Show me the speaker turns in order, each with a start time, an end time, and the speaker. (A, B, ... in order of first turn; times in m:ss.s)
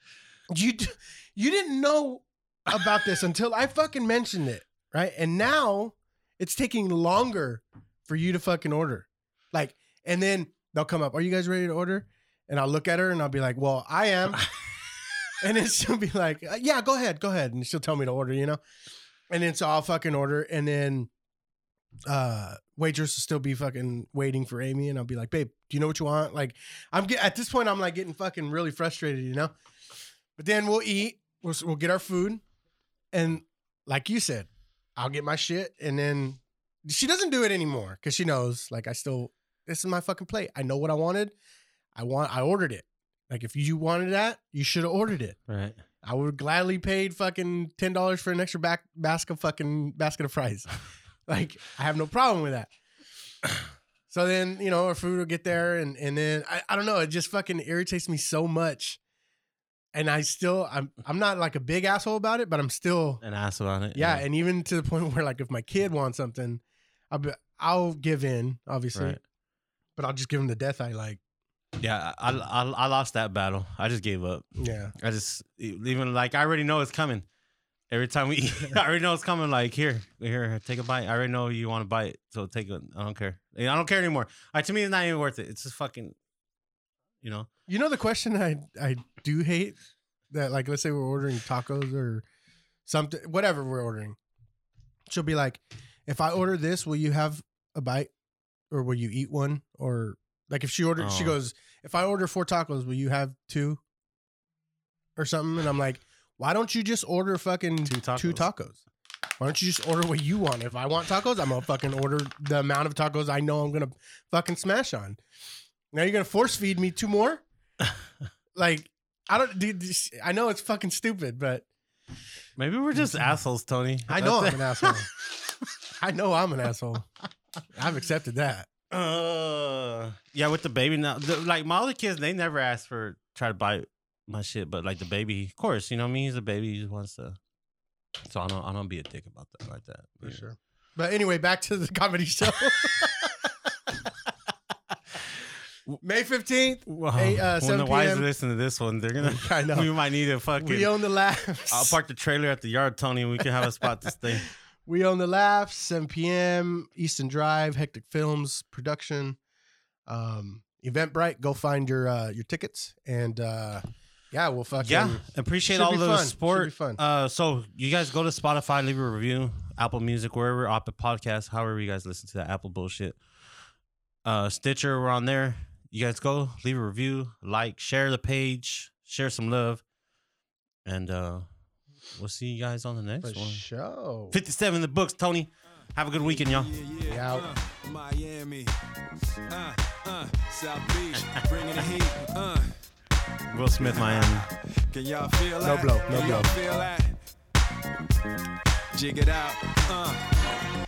0:00.5-0:14.5 A
0:15.4-0:18.6 A
0:19.3-0:21.1 A
0:22.1-0:29.5 A
0:30.4-0:32.4 A
0:33.1-0:41.3 A
0:41.9-0:45.4 A
0:45.5-0:45.8 B
0:46.0-0:50.7 A
0:51.3-0:52.7 A
0:54.1-0:59.0 A
0:59.9-1:03.2 A
1:03.2-1:04.2 B
1:03.9-1:09.2 A
1:08.9-1:09.2 B
1:10.0-1:11.2 A
1:11.8-1:17.2 B
1:14.6-1:14.9 A
1:17.9-1:26.2 B
1:27.2-1:27.5 B
1:27.7-1:29.8 A
1:30.3-1:32.2 A
1:32.8-1:34.2 A
1:35.1-1:38.1 A
1:38.7-1:43.8 A
1:41.0-1:41.4 B
1:45.2-1:48.8 A
1:47.8-1:48.4 B
1:49.4-1:55.2 A
1:55.9-1:57.4 A
1:58.5-2:01.7 A
2:02.6-2:05.0 B
2:02.9-2:03.3 A
2:04.1-2:05.1 A
2:06.0-2:07.1 A
2:07.7-2:08.7 A
2:08.9-2:17.4 B
2:18.2-2:20.4 B
2:20.2-2:24.0 A
2:26.0-2:28.3 A
2:26.9-2:30.9 B
2:29.2-2:29.9 A
2:30.6-2:32.0 A
2:31.7-2:34.5 B
2:34.3-2:39.4 A
2:40.1-2:47.0 A
2:44.8-2:53.2 B
2:54.2-2:59.8 B
3:00.8-3:01.5 B
3:02.1-3:03.6 B
3:03.2-3:04.4 A
3:04.3-3:06.7 B
3:06.2-3:08.7 C
3:07.0-3:07.5 A
3:09.5-3:12.8 C
3:11.2-3:11.4 B
3:13.5-3:14.5 B
3:13.8-3:17.2 C
3:15.6-3:16.5 A
3:18.9-3:20.4 C